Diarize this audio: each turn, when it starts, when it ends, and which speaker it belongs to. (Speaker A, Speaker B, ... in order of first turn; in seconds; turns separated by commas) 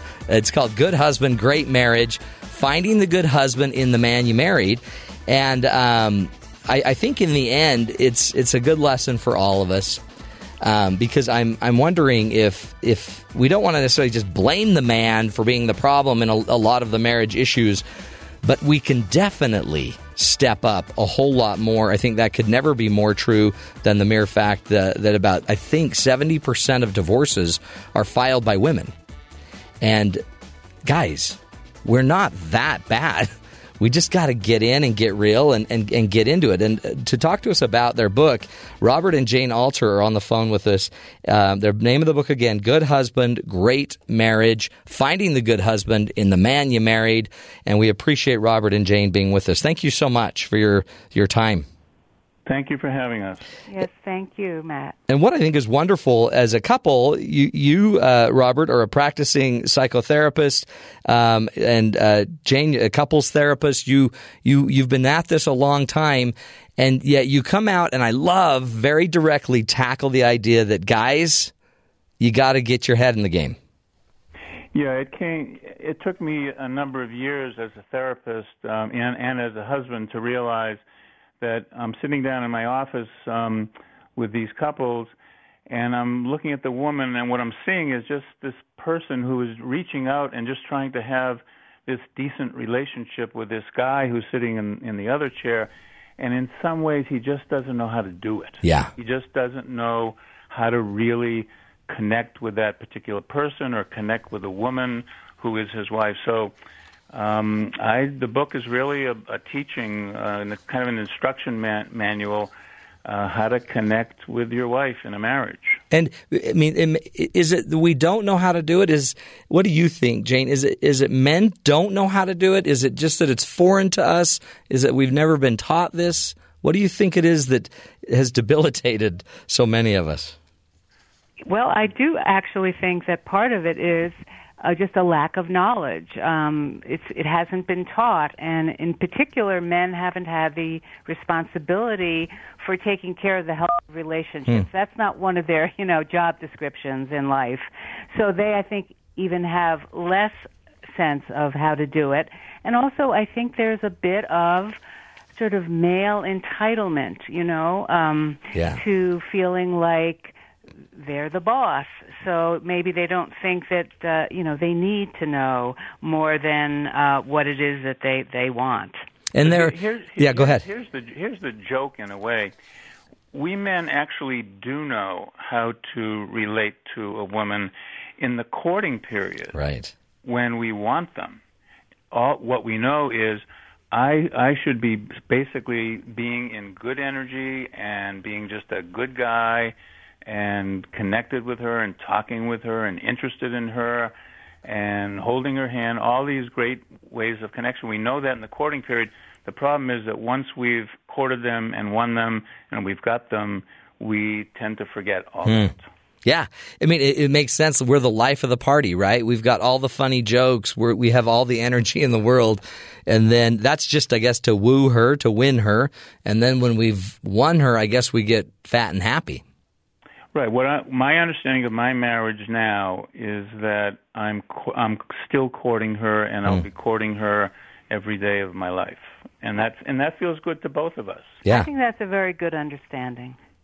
Speaker A: 0.3-10.0, Speaker A: 10.6-17.8, Speaker A: 18.4-28.9, Speaker A: 29.8-30.2, Speaker A: 30.8-51.6, Speaker B: 52.5-53.5, Speaker C: 53.7-55.0, Speaker A: 55.1-71.5, Speaker A: 72.2-73.6, Speaker B: 74.7-80.8, Speaker B: 81.4-85.1, Speaker B: 85.7-106.5, Speaker A: 98.6-98.9, Speaker B: 107.1-112.5, Speaker B: 113.0-115.8, Speaker A: 115.9-130.3, Speaker C: 131.4-154.8, Speaker C: 155.3-160.3, Speaker A: 158.5-158.8, Speaker C: 160.9-169.0, Speaker A: 169.3-170.6, Speaker B: 169.4-172.5, Speaker B: 173.3-179.6, Speaker A: 179.5-179.9, Speaker B: 180.2-181.4, Speaker B: 182.1-205.8, Speaker A: 205.4-205.7, Speaker A: 206.2-219.4, Speaker B: 220.3-231.4, Speaker C: 231.5-233.4